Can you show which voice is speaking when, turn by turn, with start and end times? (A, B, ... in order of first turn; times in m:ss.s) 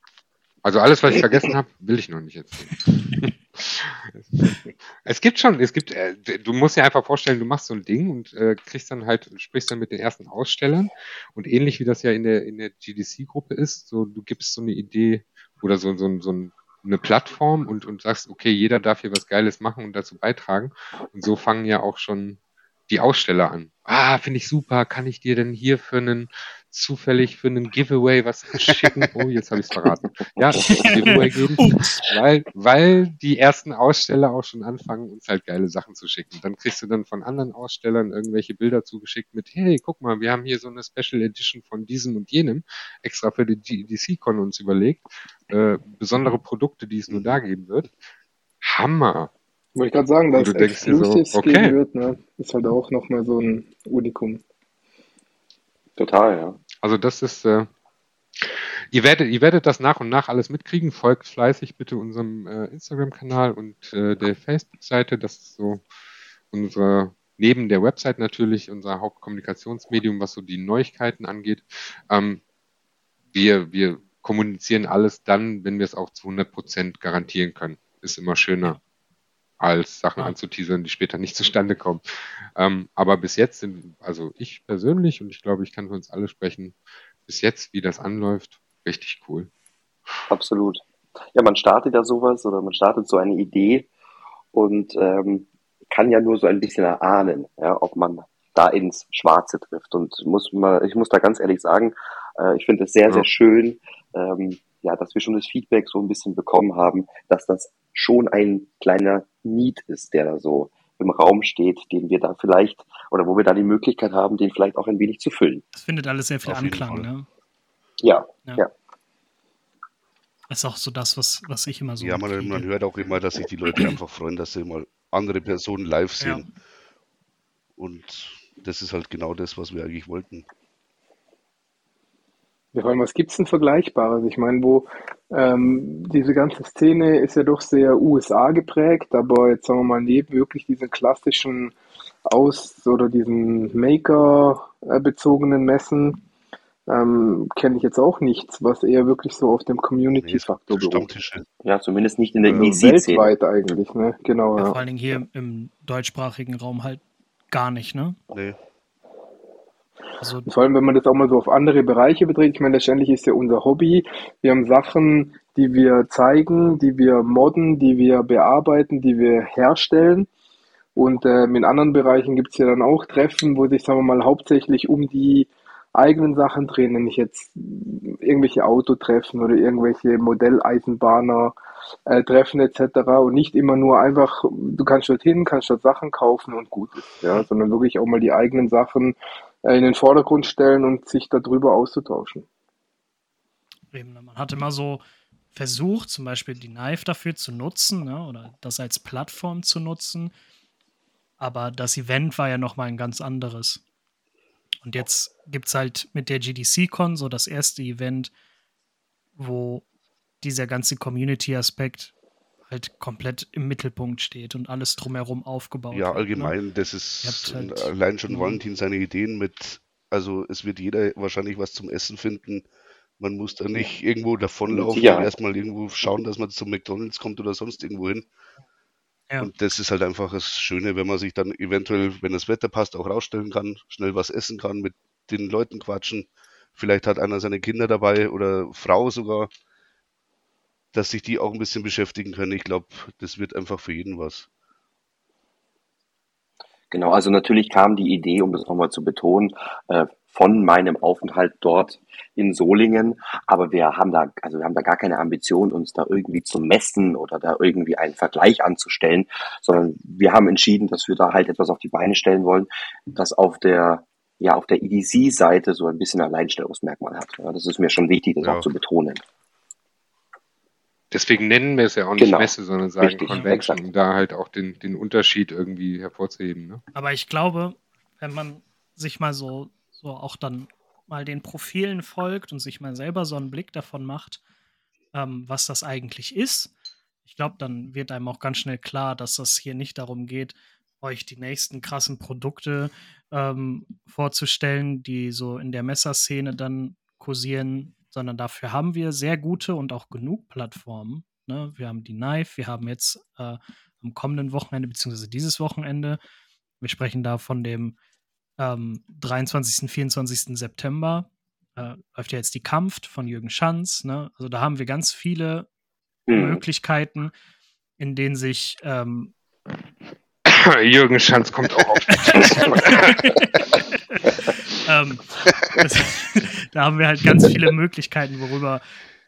0:00.6-0:47.9 A
0:30.4-0:30.9 B
0:30.8-0:32.0 C
0:48.6-0:49.3 A
0:49.8-0:54.4 D
0:50.3-0:51.8 A
0:56.0-0:56.6 B
0:56.8-0:57.7 A
0:58.4-1:05.8 A
1:06.5-1:12.4 A
1:13.3-1:18.8 A
1:19.6-1:22.0 A
1:22.6-1:29.5 A
1:30.3-1:30.8 B
1:31.3-1:33.9 B
1:34.5-1:55.6 B
1:55.7-1:57.3 C
1:56.4-1:57.1 E
1:58.0-1:58.7 B
2:00.5-2:02.7 C
2:02.0-2:06.5 E
2:07.8-2:10.5 E
2:12.7-2:21.8 D
2:22.3-2:26.2 D
2:26.9-2:31.1 D
2:30.2-2:31.5 E
2:31.6-2:33.3 B
2:32.4-2:32.7 E
2:32.5-2:34.8 D
2:34.6-2:38.2 C
2:38.3-2:38.6 E
2:40.2-2:40.5 C
2:40.5-2:50.3 D
2:51.0-3:01.5 D
3:02.1-3:12.5 D
3:13.9-3:15.0 C
3:15.5-3:20.3 C
3:21.4-3:23.8 C
3:24.8-3:28.3 C
3:29.4-3:29.8 C
3:30.4-3:32.1 C
3:32.7-3:36.6 C
3:35.9-3:42.6 E
3:37.2-3:38.6 C
3:43.2-3:48.3 E
3:44.7-3:45.3 B
3:49.4-3:59.5 E
4:00.9-4:04.5 E
4:06.9-4:29.2 B
4:28.4-4:28.7 E
4:31.1-4:36.8 A
4:32.2-4:33.8 B
4:33.3-4:33.6 C
4:36.9-4:44.4 C
4:45.1-4:46.7 C
4:47.3-5:06.2 C
5:06.8-5:08.0 C
5:08.6-5:15.7 C
5:16.3-5:16.6 B
5:16.3-5:17.3 C
5:18.0-5:19.3 C
5:20.5-5:23.2 A
5:22.2-5:24.3 C
5:24.8-5:28.8 C